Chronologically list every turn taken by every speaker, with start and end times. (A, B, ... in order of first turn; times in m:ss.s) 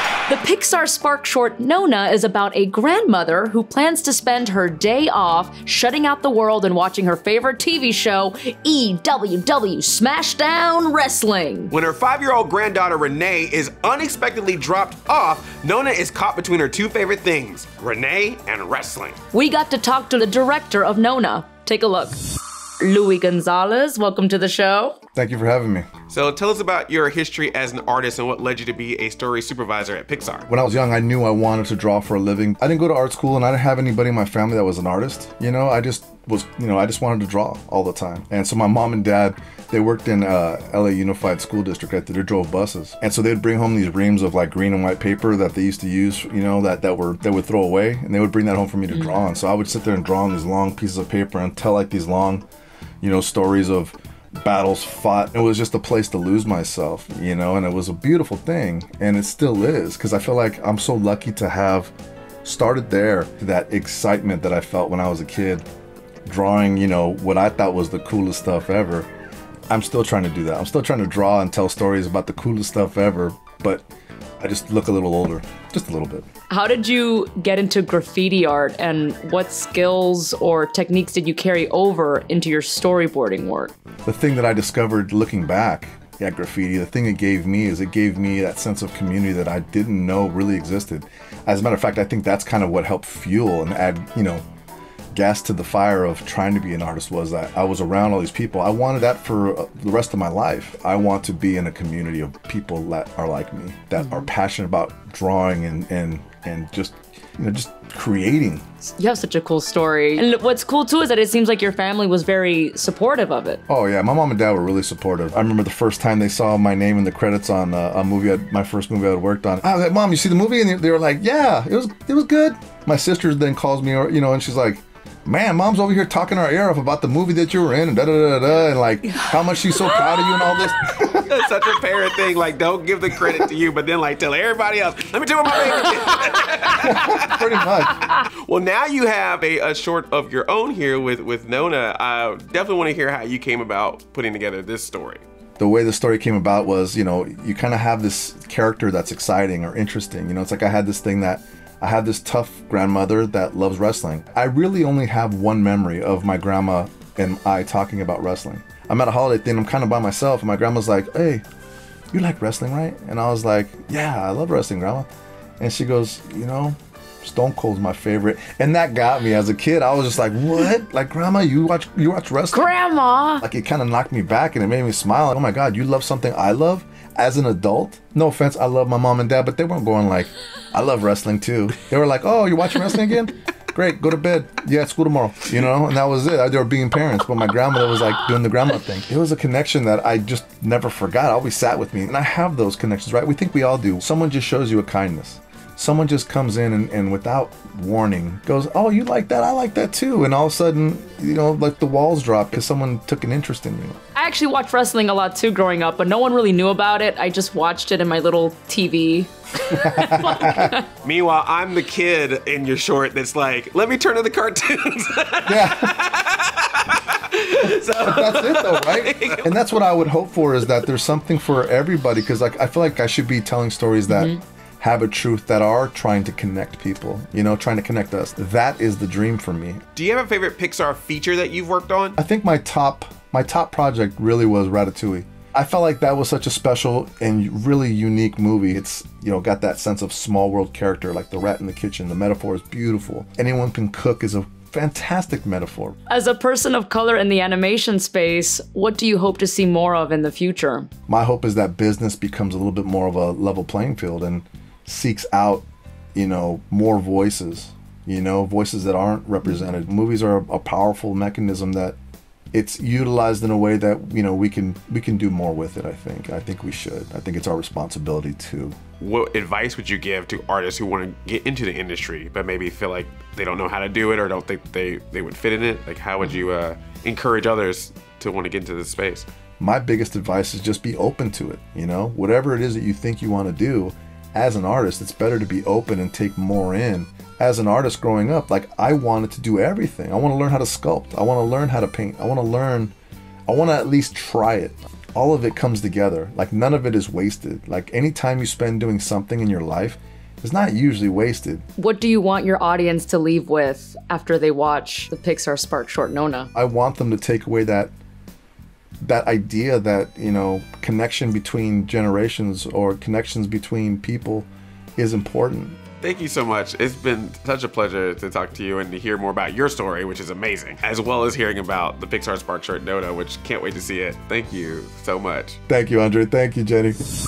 0:00.3-0:11.7 A
0:11.7-0:19.2 B
0:19.3-0:22.2 A
0:22.8-0:25.0 A
0:25.1-0:25.9 C
0:26.1-0:30.5 B
0:30.5-0:52.4 C
0:53.0-1:01.9 C
1:02.4-1:05.6 C
1:06.2-1:09.1 C
1:09.7-1:13.8 C
1:14.4-1:16.2 C
1:16.5-1:23.7 A
1:24.0-1:34.4 C
1:35.1-1:48.6 C
1:49.0-1:53.6 A
1:53.7-2:11.3 C
2:11.1-2:25.2 B
2:16.7-2:18.1 C
2:25.6-2:41.4 C
2:42.1-2:45.1 C
2:45.6-2:52.7 C
2:52.5-2:53.4 A
2:53.4-3:24.0 C
3:24.1-3:30.9 A
3:29.7-3:30.8 C
3:31.0-3:39.6 B
3:35.4-3:35.9 C
3:38.0-3:49.8 C
3:49.9-3:52.2 B
3:52.2-4:06.0 C
4:06.1-4:10.9 A
4:11.1-4:22.0 C
4:22.5-4:28.8 C
4:29.0-4:39.3 B
4:39.6-4:52.9 C
4:53.5-5:01.6 C
5:01.8-5:06.5 A
5:06.5-5:07.9 C
5:09.0-5:15.8 C
5:16.0-5:25.6 B
5:25.7-5:27.0 C